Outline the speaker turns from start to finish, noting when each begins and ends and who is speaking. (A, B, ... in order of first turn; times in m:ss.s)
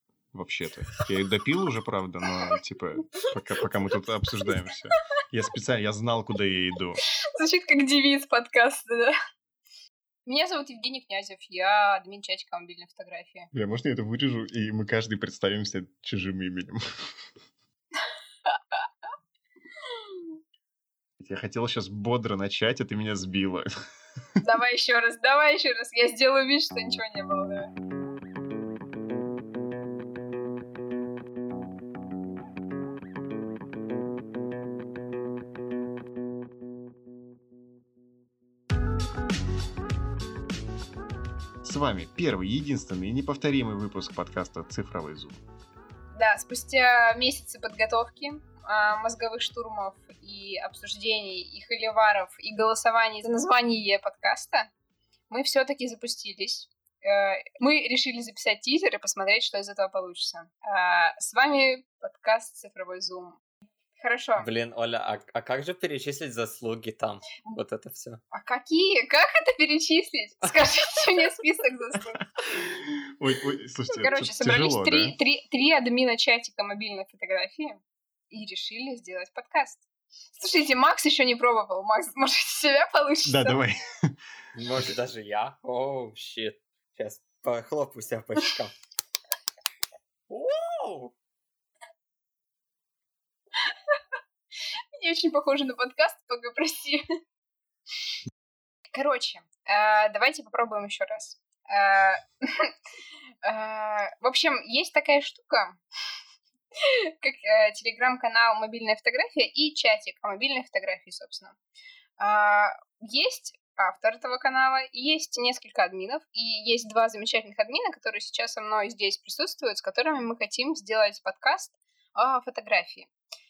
0:00.3-0:07.0 A
0:07.4-0:09.1 B
0:10.3-0:13.5 B
0:13.5-0:16.8 A
0:18.5-0:18.9 B
0:19.9-0:20.4 B
0:21.2-0:23.7 A
0:24.4-0:27.7 B
0:41.6-0:45.4 A
0:46.1-0:54.7 B
0:55.3-1:03.4 B
1:04.0-1:04.5 B
1:04.4-1:08.2 C
1:08.3-1:12.2 B
1:12.7-1:15.2 A
1:13.9-1:19.8 B
1:20.4-1:23.6 B
1:23.3-1:23.8 A
1:24.6-1:28.7 C
1:30.3-1:31.1 C
1:35.0-1:37.0 B
1:38.9-1:42.7 B
1:43.4-1:45.8 B
1:46.8-1:51.6 B
1:52.2-2:03.1 B